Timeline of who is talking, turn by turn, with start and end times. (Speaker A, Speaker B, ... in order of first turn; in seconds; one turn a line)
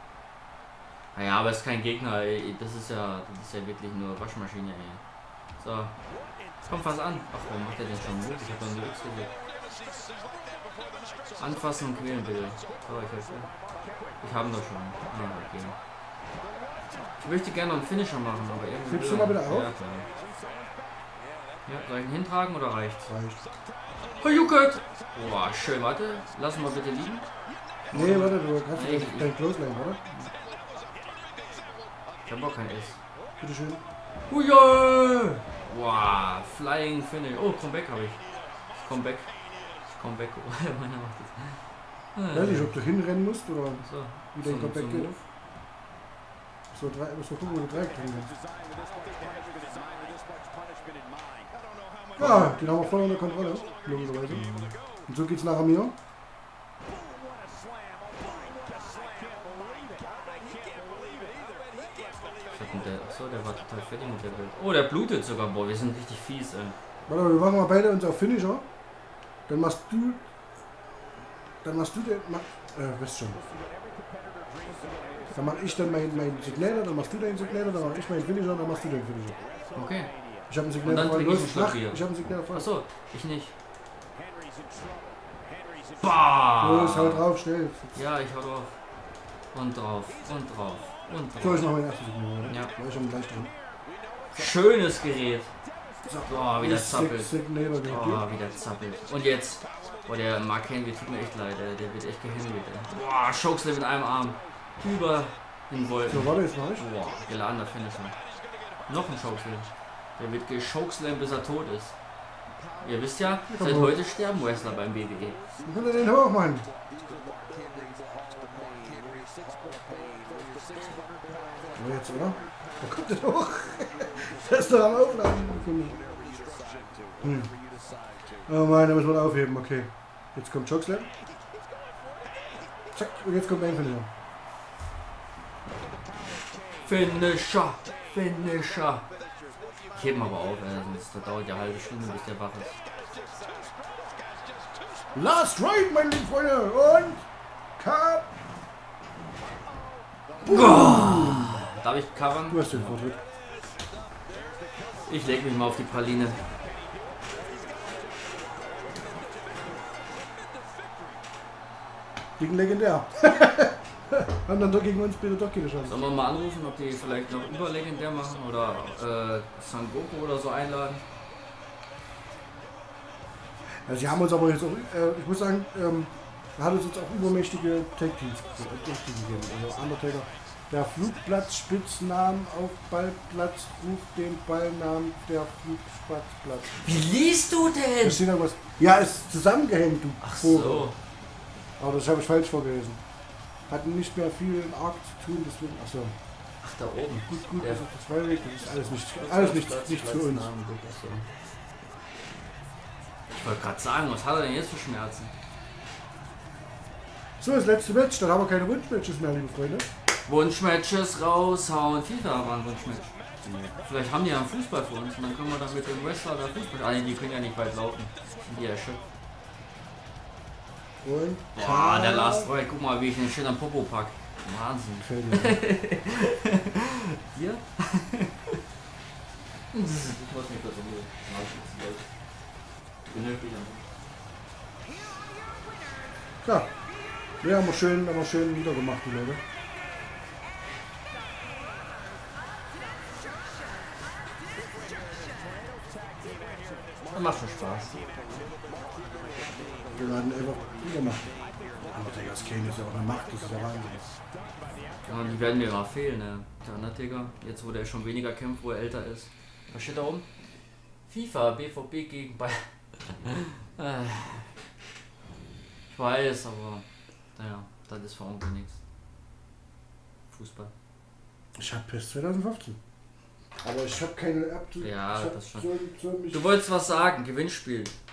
Speaker A: 1.1-5.0
Speaker A: 5.6-5.9
Speaker A: 6.7-9.3
Speaker A: 11.4-13.5
Speaker A: 14.2-15.7
Speaker A: 17.2-20.1
Speaker B: 18.9-19.7
Speaker A: 21.7-23.1
Speaker B: 23.1-23.4
Speaker A: 24.2-27.2
Speaker A: 27.9-29.3
Speaker B: 27.9-30.2
Speaker A: 32.3-33.0
Speaker B: 33.4-33.8
Speaker A: 34.3-38.2
Speaker A: 38.9-39.3
Speaker A: 39.9-41.6
Speaker A: 42.2-42.8
Speaker B: 42.3-45.1
Speaker A: 43.8-45.2
Speaker B: 46.7-48.3
Speaker B: 52.2-54.5
Speaker A: 52.2-52.5
Speaker A: 54.3-54.8
Speaker B: 55.1-55.9
Speaker A: 62.5-66.8
Speaker B: 67.1-68.7
Speaker B: 69.5-70.2
Speaker B: 71.6-73.4
Speaker B: 75.3-79.4
Speaker A: 79.8-80.1
Speaker B: 80.5-82.7
Speaker A: 80.8-83.5
Speaker A: 86.0-87.2
Speaker B: 86.6-87.9
Speaker A: 88.0-88.7
Speaker A: 89.5-91.7
Speaker B: 91.4-93.5
Speaker A: 94.3-95.5
Speaker B: 96.1-98.2
Speaker A: 96.3-97.3
Speaker A: 97.9-108.1
Speaker B: 106.1-106.8
Speaker A: 108.9-112.0
Speaker A: 112.8-115.4
Speaker B: 113.5-114.0
Speaker B: 115.7-116.7
Speaker B: 121.8-126.0
Speaker B: 127.2-127.5
Speaker B: 128.5-131.1
Speaker B: 132.9-134.1
Speaker A: 136.8-139.1
Speaker A: 139.9-142.8
Speaker B: 145.2-147.2
Speaker B: 147.8-148.3
Speaker B: 150.4-151.6
Speaker A: 150.4-153.0
Speaker B: 152.5-153.2
Speaker A: 155.1-156.4
Speaker B: 162.4-166.0
Speaker A: 165.9-171.0
Speaker B: 173.9-186.8
Speaker A: 186.8-188.2
Speaker B: 188.0-190.9
Speaker A: 190.2-191.0
Speaker B: 191.8-193.0
Speaker B: 193.7-196.2
Speaker A: 196.6-197.8
Speaker B: 197.3-200.5
Speaker A: 199.2-201.3
Speaker A: 203.3-205.3
Speaker B: 207.4-209.9
Speaker A: 210.3-213.1
Speaker B: 213.4-213.8
Speaker A: 213.8-219.0
Speaker B: 221.0-222.5
Speaker A: 221.6-228.6
Speaker B: 225.0-225.6
Speaker A: 229.7-232.1
Speaker A: 233.1-233.8
Speaker B: 236.4-236.7
Speaker B: 237.4-239.4
Speaker A: 247.1-248.0
Speaker B: 249.9-251.3
Speaker B: 251.9-254.1
Speaker A: 255.1-260.3
Speaker A: 261.1-264.5
Speaker A: 265.9-266.8
Speaker A: 267.4-268.8
Speaker A: 270.3-270.7
Speaker B: 271.6-272.8
Speaker B: 273.6-276.4
Speaker A: 274.8-275.7
Speaker A: 276.3-277.9